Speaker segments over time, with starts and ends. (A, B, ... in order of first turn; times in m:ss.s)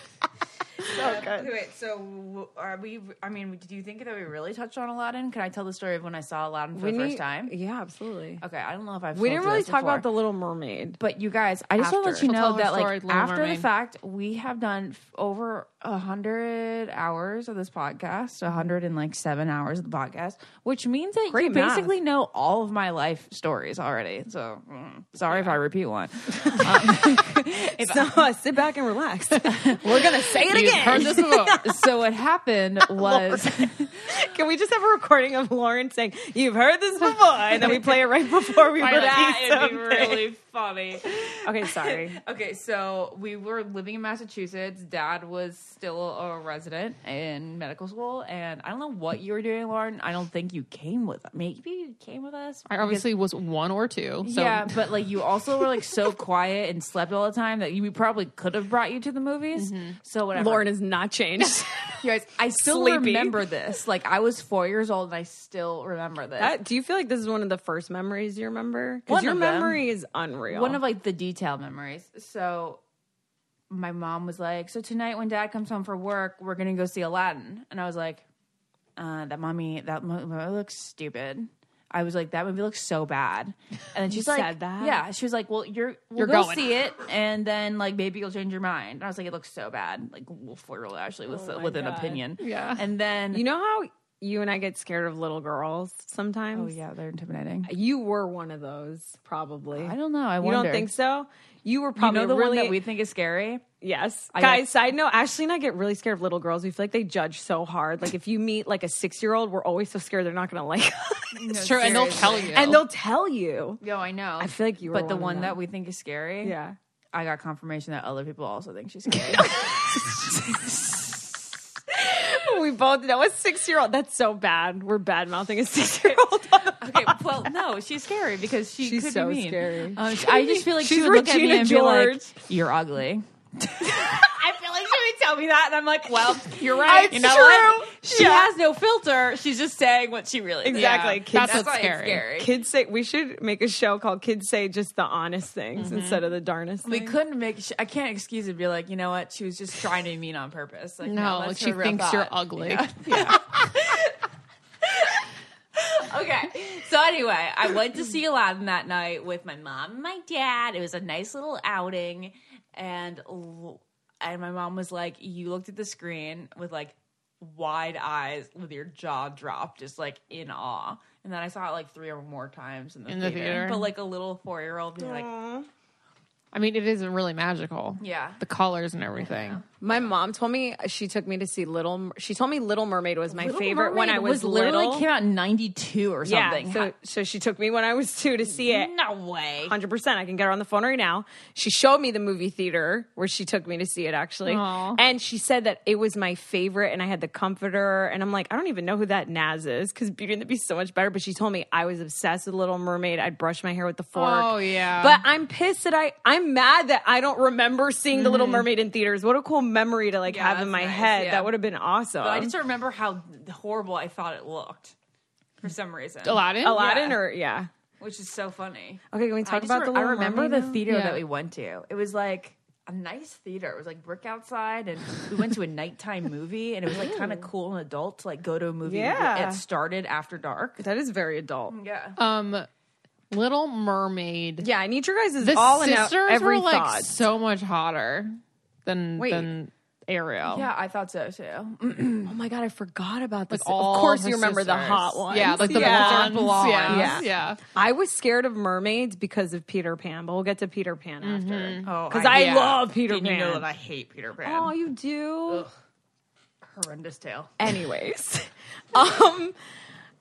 0:00.8-0:07.5 A
0:00.8-0:01.5 B
0:06.7-0:08.4 B
0:08.4-0:10.1 A
0:09.1-0:11.0 B
0:11.0-0:28.3 A
0:11.8-0:12.3 B
0:12.2-0:13.7 C
0:21.3-0:21.9 B
0:26.3-0:31.7 B
0:29.5-0:30.0 A
0:30.5-0:31.6 C
0:31.6-0:34.1 A
0:32.9-0:40.3 B
0:38.8-0:53.1 A
0:41.4-0:42.2 B
0:52.7-0:54.8 C
0:54.2-1:00.7 A
0:59.6-1:00.0 C
1:00.4-1:01.7 B
1:02.0-1:06.6 A
1:02.6-1:03.4 B
1:06.4-1:10.8 B
1:09.1-1:09.8 A
1:10.5-1:12.8 A
1:13.7-1:18.2 A
1:19.0-1:33.4 A
1:24.1-1:25.0 B
1:26.2-1:26.8 C
1:31.3-1:32.2 B
1:32.4-1:32.8 C
1:33.3-1:36.8 B
1:36.5-1:37.7 A
1:37.6-1:42.8 B
1:39.8-1:40.9 A
1:42.0-1:43.6 A
1:43.8-1:51.6 B
1:44.3-1:44.8 A
1:51.3-1:52.6 A
1:51.6-1:52.8 C
1:52.5-1:53.8 B
1:53.8-1:56.6 A
1:54.4-1:55.6 B
1:56.4-1:56.8 B
1:57.1-2:01.3 A
1:59.4-1:59.8 B
2:01.9-2:07.2 B
2:06.8-2:22.5 A
2:08.8-2:12.3 B
2:16.6-2:17.5 C
2:16.8-2:18.5 B
2:20.6-2:21.7 B
2:20.7-2:22.2 C
2:22.4-2:27.1 B
2:25.8-2:26.2 C
2:26.8-2:34.2 A
2:31.0-2:33.4 C
2:33.1-2:33.4 B
2:34.8-2:55.3 A
2:53.1-2:53.9 C
2:55.0-2:55.7 B
2:56.5-2:59.6 C
2:58.0-2:58.4 A
2:59.2-3:00.0 A
2:59.8-3:05.1 B
3:03.3-3:06.9 A
3:06.2-3:08.9 B
3:08.4-3:09.8 A
3:09.6-3:32.5 B
3:14.4-3:15.0 C
3:24.1-3:25.2 C
3:28.1-3:28.7 C
3:30.3-3:31.5 A
3:32.2-3:35.0 A
3:35.6-3:36.4 A
3:36.2-3:37.2 C
3:36.6-3:37.7 B
3:38.0-3:50.8 A
3:39.1-3:40.8 B
3:40.9-3:41.2 C
3:46.9-3:47.5 B
3:48.8-3:49.6 B
3:50.8-3:51.8 B
3:51.7-3:52.2 A
3:52.2-3:52.7 C
3:53.3-3:54.7 C
3:54.6-3:57.1 B
3:55.4-4:00.7 C
3:59.2-3:59.5 B
4:00.5-4:02.4 A
4:02.2-4:13.7 B
4:03.5-4:07.6 C
4:04.9-4:07.3 A
4:11.2-4:12.8 C
4:11.8-4:14.8 A
4:14.4-4:15.7 B
4:16.6-4:17.6 A
4:17.6-4:19.6 B